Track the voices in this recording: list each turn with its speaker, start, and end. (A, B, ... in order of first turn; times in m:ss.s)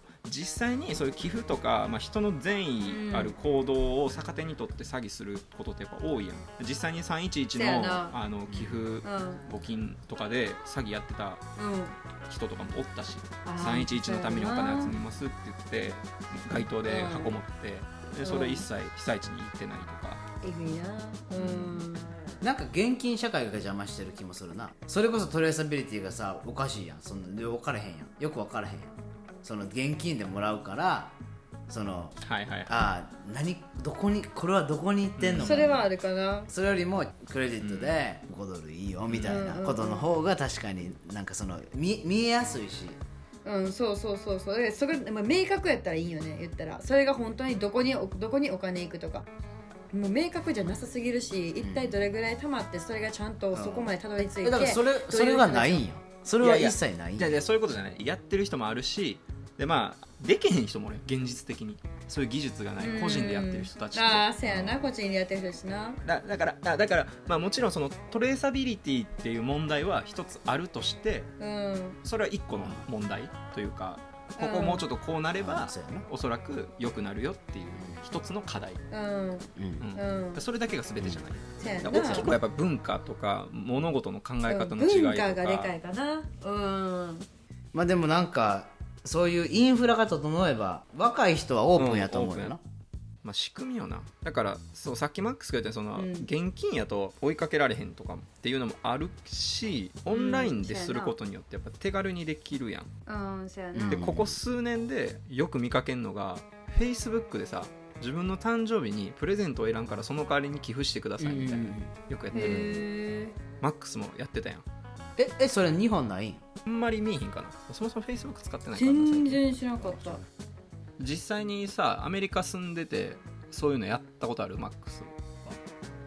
0:00.2-0:11.4 A
0:02.8-0:03.4 B
0:07.5-0:08.2 B
0:08.5-0:08.9 C
0:09.0-0:09.4 B
0:11.6-0:12.0 B
0:12.3-0:20.2 A
0:13.4-0:15.0 B
0:16.4-0:16.7 C
0:16.8-0:17.4 B
0:18.2-0:18.7 B
0:20.4-0:22.1 B
0:21.4-0:21.7 A
0:21.4-0:21.8 C
0:22.4-0:31.1 C
0:31.7-0:35.9 C
0:32.2-0:32.8 A
0:35.2-0:35.8 A
0:35.4-0:36.5 B
0:36.5-0:43.0 C
0:37.6-0:38.0 A
0:39.1-0:39.4 A
0:39.2-0:40.1 B
0:43.4-0:49.3 B
0:49.9-0:55.8 B
0:51.6-0:52.1 C
0:53.5-0:57.4 C
0:56.4-1:04.3 A
1:02.8-1:06.0 B
1:04.4-1:04.8 C
1:06.0-1:11.3 A
1:11.4-1:12.0 B
1:12.0-1:18.8 A
1:12.6-1:12.9 C
1:14.4-1:14.8 B
1:15.4-1:16.1 C
1:17.8-1:18.0 C
1:18.9-1:20.4 B
1:19.6-1:19.9 C
1:19.8-1:25.8 A
1:21.0-1:22.4 C
1:21.6-1:22.3 B
1:24.4-1:27.3 B
1:27.7-1:32.6 C
1:31.8-1:32.5 A
1:33.2-1:42.9 A
1:36.0-1:36.3 B
1:40.1-1:41.2 B
1:43.1-1:44.1 B
1:43.7-1:44.4 C
1:43.9-1:52.8 A
1:51.2-1:52.6 C
1:52.3-1:53.3 B
1:53.6-1:54.6 A
1:55.2-1:56.4 C
1:56.7-1:59.4 A
1:58.7-2:00.2 B
1:59.8-2:00.2 C
2:01.0-2:05.1 A